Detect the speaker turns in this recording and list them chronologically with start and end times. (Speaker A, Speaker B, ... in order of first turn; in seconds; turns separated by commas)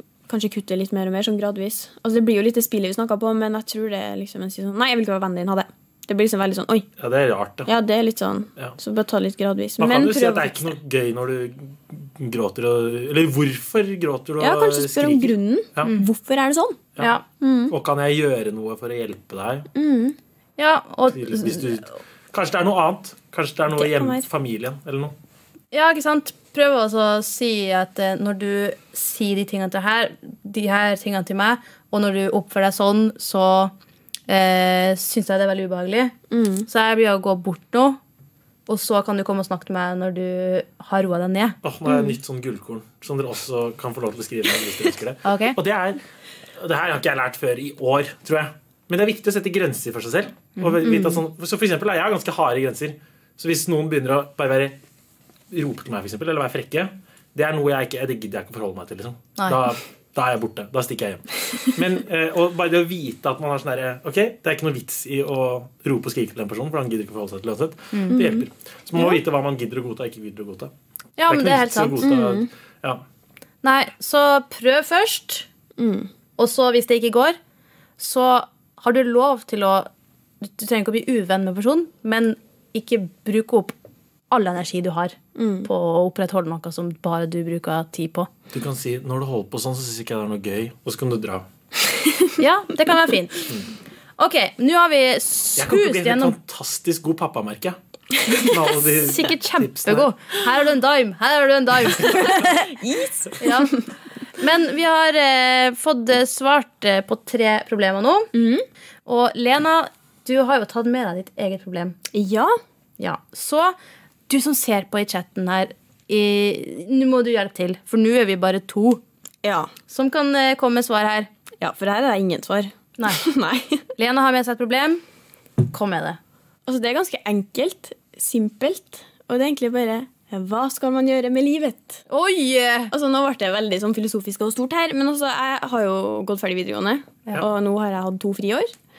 Speaker A: 0.3-6.9, Speaker B: 7.0-7.7, Speaker A: 7.7-10.7, Speaker B: 9.8-15.9, Speaker A: 14.4-17.8, Speaker C: 17.0-17.2, Speaker B: 17.7-19.7, Speaker A: 19.8-20.2, Speaker C: 20.6-21.9, Speaker B: 21.1-25.1, Speaker A: 23.8-24.3, Speaker C: 25.7-33.7, Speaker C: 34.3-36.1, Speaker A: 36.3-36.7, Speaker C: 36.7-38.0, Speaker C: 38.7-41.6, Speaker B: 41.6-46.0, Speaker C: 45.2-45.6, Speaker B: 46.6-54.8, Speaker C: 50.6-50.9, Speaker A: 50.9-51.1, Speaker B: 55.5-70.7, Speaker C: 59.4-59.7, Speaker C: 67.9-68.2, Speaker A: 68.1-68.5, Speaker C: 71.2-72.1, Speaker B: 71.3-73.0, Speaker A: 72.0-72.5, Speaker C: 73.6-75.5, Speaker A: 75.8-76.1, Speaker C: 76.4-77.4, Speaker C: 78.0-79.9, Speaker C: 80.4-83.8, Speaker C: 84.3-88.3, Speaker A: 85.4-85.7, Speaker B: 88.5-91.5, Speaker C: 92.4-93.5, Speaker C: 94.2-96.4, Speaker B: 95.6-97.8, Speaker B: 98.4-100.1, Speaker C: 98.7-102.8, Speaker A: 102.1-103.8, Speaker C: 103.4-103.8, Speaker C: 104.4-108.3, Speaker A: 108.3-108.6, Speaker C: 109.1-112.0, Speaker A: 112.1-112.5, Speaker C: 113.0-113.8, Speaker C: 114.3-119.0, Speaker A: 119.4-119.7, Speaker C: 119.9-121.3, Speaker A: 121.6-123.8, Speaker C: 124.0-125.0, Speaker C: 125.7-126.2, Speaker A: 126.7-132.0, Speaker C: 132.1-132.9, Speaker A: 132.9-138.7